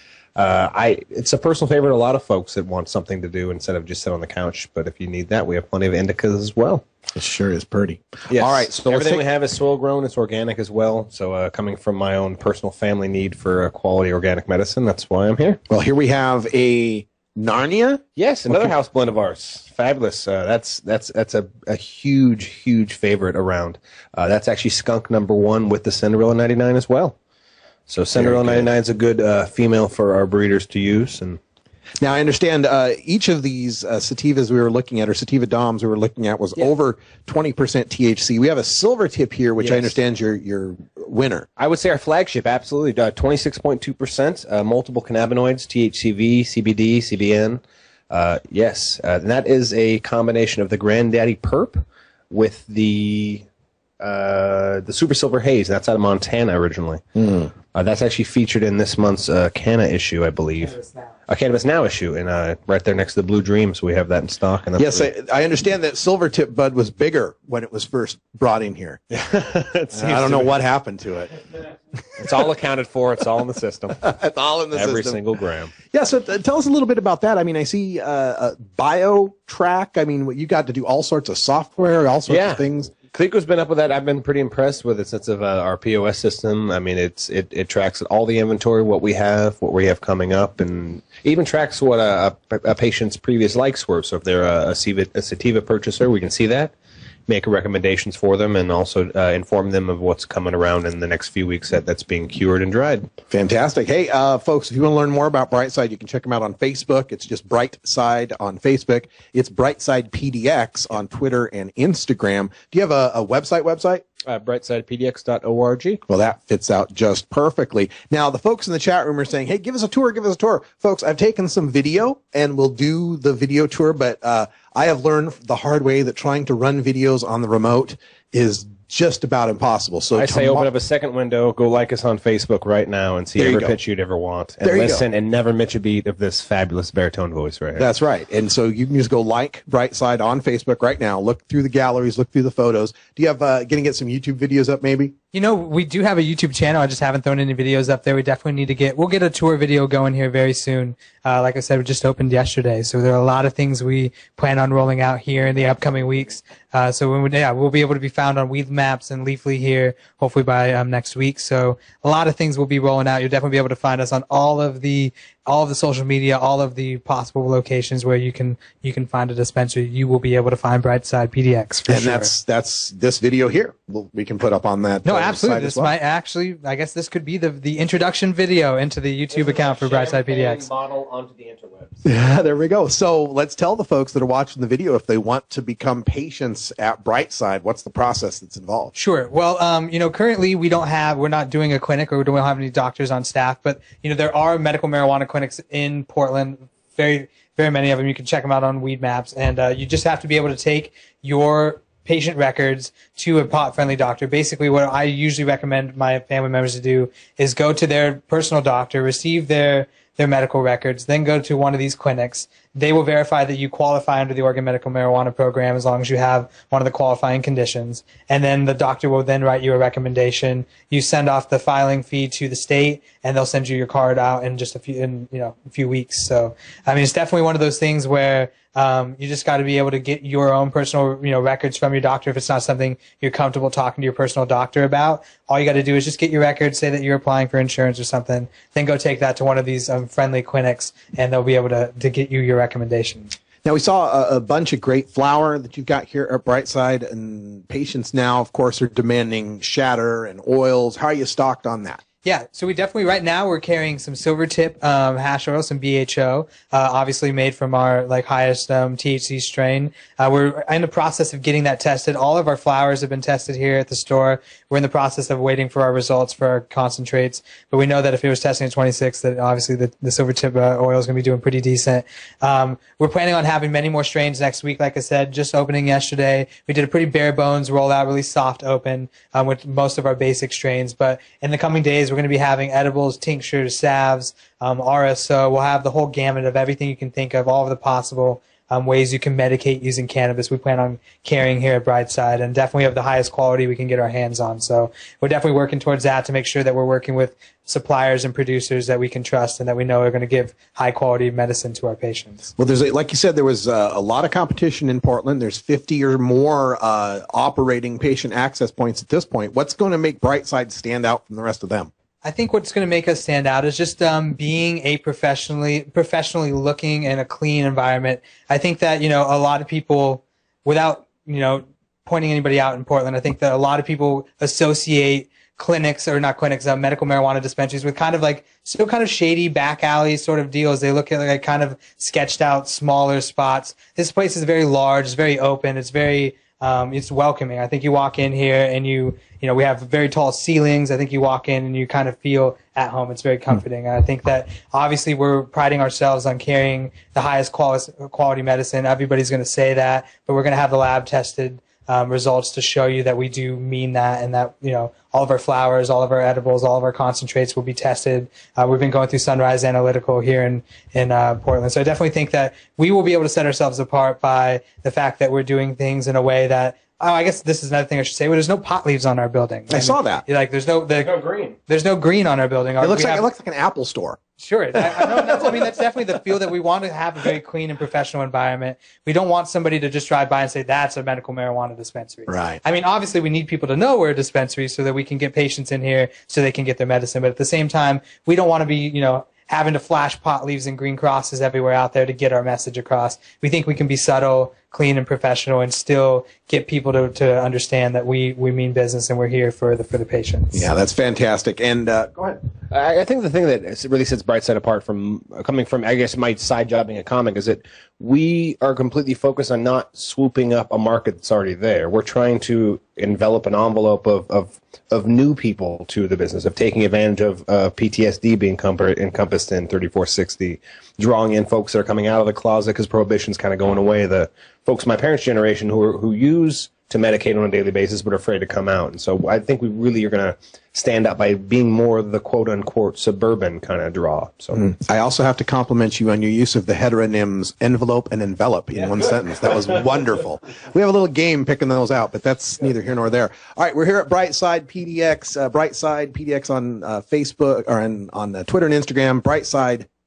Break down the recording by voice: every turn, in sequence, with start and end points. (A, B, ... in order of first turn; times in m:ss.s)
0:00.4-0:06.8 A
0:07.1-0:09.3 B
0:08.3-0:15.6 A
0:15.7-0:18.7 B
0:18.2-0:27.2 A
0:27.9-0:31.4 A
0:28.2-0:28.7 B
0:32.0-0:41.5 B
0:39.6-0:40.0 A
0:41.6-0:53.4 A
0:54.0-0:57.0 A
0:57.2-0:57.5 B
0:57.7-1:00.8 A
1:00.6-1:01.1 C
1:01.3-1:05.1 A
1:04.8-1:09.0 B
1:09.2-1:10.6 A
1:09.9-1:11.3 B
1:12.2-1:14.0 A
1:14.0-1:15.2 B
1:14.7-1:15.7 A
1:15.9-1:22.9 B
1:22.3-1:36.7 A
1:37.3-1:43.1 A
1:43.3-1:54.0 B
1:54.2-1:56.0 A
1:56.1-2:10.7 B
2:10.1-2:17.9 A
2:13.4-2:13.7 B
2:14.6-2:15.0 B
2:17.8-2:25.1 B
2:25.3-2:52.3 C
2:51.9-2:55.9 B
2:55.0-3:00.6 C
2:59.3-3:02.0 A
3:02.0-3:08.9 B
3:09.0-4:03.3 C
4:03.6-4:12.0 B
4:12.2-5:02.5 C
5:02.6-5:11.9 B
5:12.2-6:11.1 C
6:09.7-6:10.2 B
6:11.0-6:11.6 A
6:11.7-6:13.3 C
6:12.8-6:14.2 B
6:14.4-6:40.6 C
6:14.7-6:16.5 B
6:22.3-6:22.6 B
6:40.5-6:42.4 B
6:42.7-7:14.6 A
7:14.5-7:29.9 B